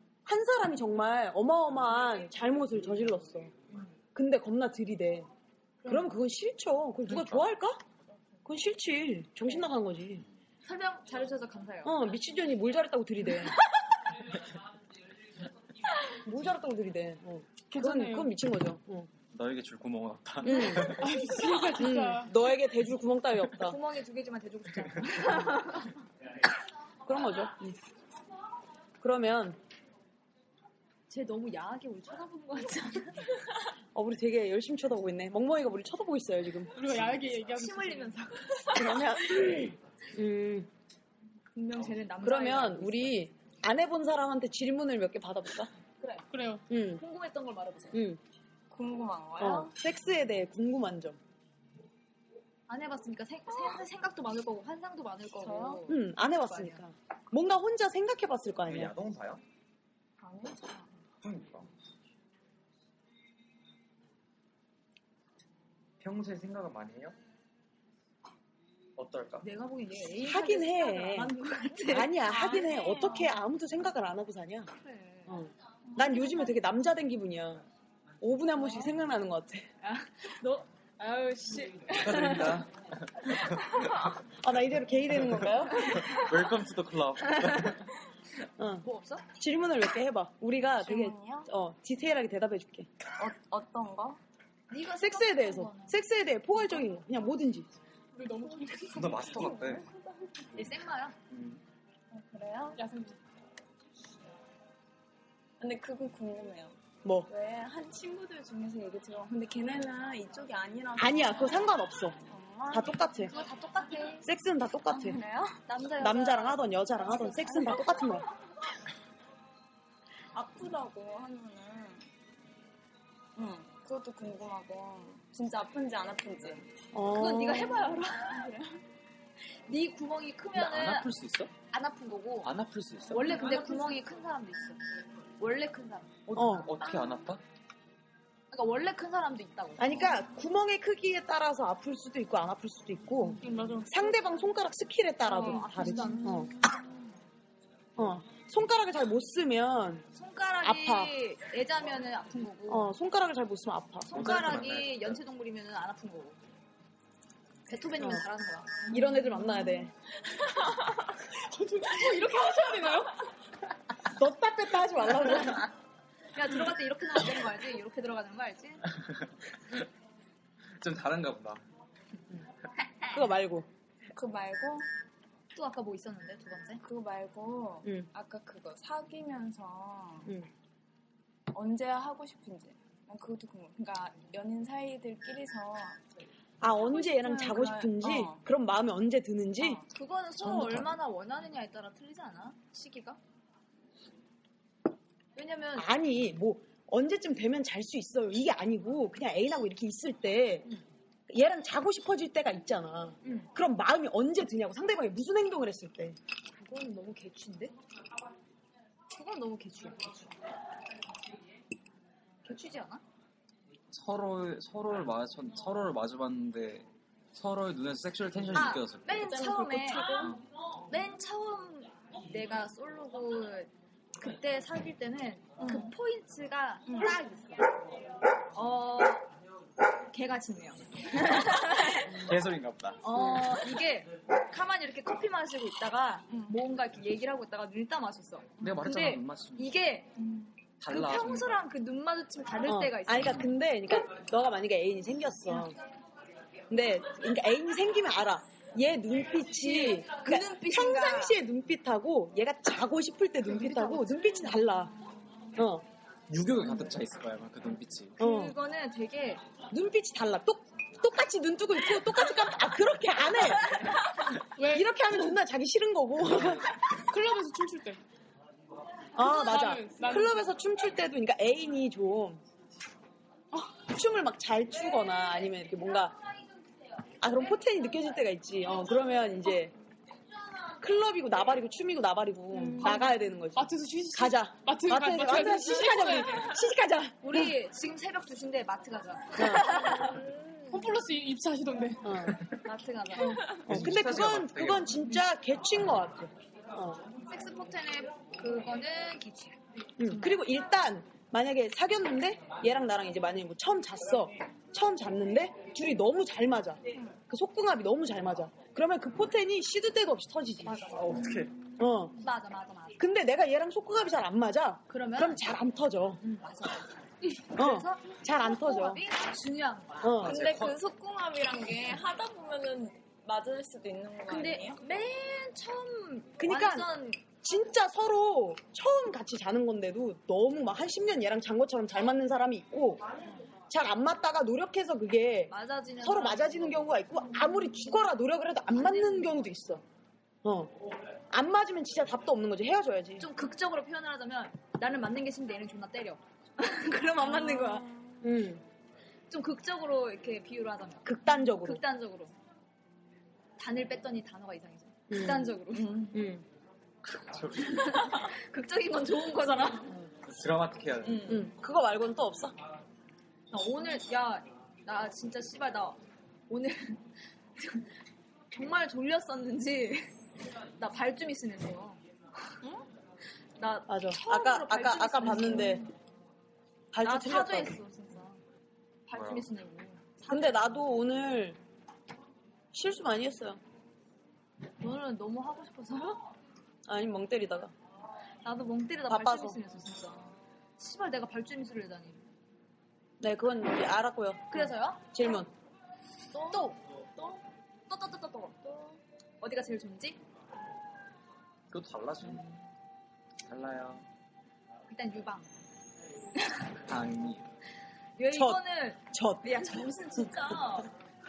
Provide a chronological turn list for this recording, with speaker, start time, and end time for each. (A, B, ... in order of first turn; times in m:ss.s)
0:00.2-0:03.5 A
0:04.2-0:05.3 A
0:05.8-0:06.1 B
0:05.9-0:07.8 A
0:07.1-0:07.5 C
0:08.4-0:10.2 A
0:10.6-0:12.0 B
0:11.8-0:13.6 A
0:16.2-0:19.1 A
0:17.7-0:18.3 D
0:19.3-0:21.3 C
0:20.4-0:21.1 A
0:21.0-0:22.3 D
0:21.7-0:23.8 A
0:23.6-0:26.0 B
0:27.0-0:27.8 A
0:29.0-0:29.6 A
0:31.1-0:33.3 B
0:33.9-0:36.8 A
0:36.7-0:38.1 D
0:37.5-0:39.1 B
0:38.7-0:40.7 A
0:41.5-0:43.2 B
0:42.2-0:45.7 A
0:46.0-0:48.0 B
0:46.3-0:46.6 D
0:46.7-0:47.0 A
0:47.9-0:48.2 A
0:48.7-0:49.7 E
0:49.4-0:51.2 A
0:52.7-0:56.8 B
0:55.4-0:55.8 E
0:55.9-0:58.9 A
0:58.7-0:59.4 C
1:00.2-1:00.9 E
1:01.2-1:01.7 C
1:06.0-1:07.2 C
1:09.0-1:09.4 C
1:09.4-1:13.3 B
1:10.1-1:11.4 A
1:11.9-1:14.7 A
1:14.7-1:15.4 B
1:15.3-1:17.6 A
1:15.9-1:16.5 B
1:18.2-1:19.7 A
1:18.6-1:18.9 B
1:19.8-1:22.7 B
1:21.9-1:23.7 C
1:23.3-1:24.1 B
1:24.3-1:26.1 A
1:25.7-1:27.9 C
1:25.9-1:26.2 B
1:28.6-1:32.9 A
1:28.8-1:29.3 B
1:30.8-1:31.5 E
1:33.2-1:34.2 E
1:34.7-1:36.0 B
1:35.0-1:37.7 A
1:38.1-1:39.6 D
1:38.9-1:39.9 C
1:39.3-1:40.5 E
1:40.6-1:41.2 B
1:41.3-1:41.6 C
1:42.1-1:42.8 E
1:42.8-1:43.2 D
1:45.6-1:46.8 E
1:47.0-1:47.3 A
1:47.3-1:51.8 E
1:51.0-1:52.2 A
1:52.3-1:53.1 E
1:52.7-1:53.3 A
1:53.3-1:54.3 B
1:54.2-1:55.2 A
1:54.9-1:55.6 E
1:55.6-1:56.6 B
1:56.0-1:58.3 A
1:57.1-1:58.2 E
2:00.3-2:02.1 E
2:03.4-2:06.7 E
2:06.9-2:08.0 A
2:07.1-2:08.6 B
2:09.7-2:11.1 B
2:10.6-2:11.5 C
2:11.7-2:12.5 B
2:12.4-2:13.4 C
2:13.1-2:14.8 B
2:13.3-2:13.9 E
2:15.4-2:16.7 B
2:16.3-2:17.4 C
2:16.3-2:16.7 A
2:18.5-2:20.2 B
2:19.8-2:26.5 A
2:23.4-2:24.1 D
2:25.2-2:26.8 B
2:28.0-2:30.1 A
2:30.1-2:32.9 B
2:30.6-2:31.1 A
2:32.7-2:34.6 A
2:34.0-2:36.4 B
2:34.1-2:35.2 C
2:37.7-2:39.0 B
2:38.0-2:38.2 A
2:38.9-2:39.9 A
2:41.3-2:43.1 D
2:44.1-2:45.7 A
2:46.4-2:48.8 B
2:50.8-2:51.6 C
2:53.1-2:53.7 A
2:54.1-2:54.9 E
2:55.6-2:56.8 B
2:56.8-3:00.3 E
2:57.8-2:58.1 A
3:01.5-3:06.0 E
3:06.6-3:09.8 A
3:06.7-3:08.4 E
3:09.9-3:13.2 B
3:10.4-3:10.9 C
3:15.4-3:15.9 B
3:15.8-3:20.7 A
3:21.3-3:26.2 A
3:23.2-3:23.5 B
3:26.5-3:27.7 B
3:29.1-3:30.3 B
3:32.4-3:33.0 B
3:33.9-3:39.2 C
3:38.5-3:40.3 B
3:39.1-3:40.4 E
3:40.9-3:47.7 B
3:45.6-3:45.9 E
3:46.9-3:47.2 E
3:48.5-3:49.3 B
3:50.1-3:52.3 B
3:52.2-3:53.0 C
3:53.0-4:03.5 B
3:53.2-3:53.4 A
3:56.3-3:56.6 E
3:58.6-3:59.8 C
4:00.8-4:01.6 C
4:02.6-4:05.8 A
4:06.7-4:14.9 A
4:09.5-4:11.4 B
4:13.4-4:14.9 B
4:15.6-4:15.9 A
4:16.3-4:18.2 C
4:18.2-4:18.6 A
4:18.2-4:19.4 B
4:19.7-4:24.0 A
4:24.6-4:24.9 D
4:24.6-4:26.7 A
4:27.1-4:28.0 D
4:29.2-4:32.4 A
4:29.2-4:30.4 D
4:33.9-4:36.2 A
4:37.2-4:39.8 A
4:40.8-4:47.6 A
4:42.7-4:46.6 D
4:47.2-4:50.3 B
4:49.4-4:49.9 A
4:50.7-4:52.1 D
4:52.0-4:52.4 A
4:52.6-4:53.6 B
4:53.2-4:53.5 D
4:53.7-4:57.0 A
4:53.7-4:55.1 C
4:57.2-5:00.4 B
5:00.0-5:10.8 A
5:10.6-5:11.3 B
5:10.9-5:11.5 C
5:11.8-5:12.2 A
5:12.2-5:13.0 B
5:13.0-5:16.2 A
5:14.9-5:15.4 B
5:16.2-5:20.2 B
5:17.6-5:19.0 A
5:20.0-5:20.4 A
5:20.2-5:20.8 C
5:20.2-5:24.8 E
5:24.3-5:27.2 B
5:26.4-5:33.0 A
5:33.7-5:39.8 A
5:35.5-5:37.0 B
5:38.7-5:39.5 B
5:40.4-5:40.7 A
5:41.3-5:43.2 A
5:43.2-5:47.9 B
5:47.3-5:48.2 E
5:48.2-5:48.6 A
5:49.3-5:52.3 B
5:51.0-5:51.8 A
5:53.6-5:56.2 B
5:55.1-5:55.6 A
5:55.7-5:56.2 E
5:56.1-5:56.4 A
5:57.0-5:58.2 C
5:57.6-6:00.0 B
6:00.2-6:01.5 C
6:01.1-6:02.6 A
6:03.5-6:07.0 B
6:07.6-6:07.9 B
6:08.5-6:10.1 B
6:10.8-6:12.7 B
6:13.6-6:15.9 B
6:13.9-6:15.9 A
6:16.9-6:17.8 A
6:17.0-6:18.4 B
6:19.1-6:20.7 B
6:19.1-6:19.5 C
6:20.3-6:21.6 A
6:22.7-6:23.6 A
6:24.8-6:26.2 B
6:26.9-6:27.7 A
6:28.4-6:32.2 B
6:29.1-6:29.6 A
6:33.2-6:35.5 A
6:34.5-6:35.2 B
6:36.3-6:37.4 B
6:36.4-6:36.6 E
6:37.9-6:38.9 B
6:39.4-6:40.2 B
6:41.7-6:42.4 C
6:43.5-6:44.0 C
6:44.9-6:45.5 B
6:46.8-6:47.5 C
6:48.2-6:50.9 B
6:48.3-6:49.7 A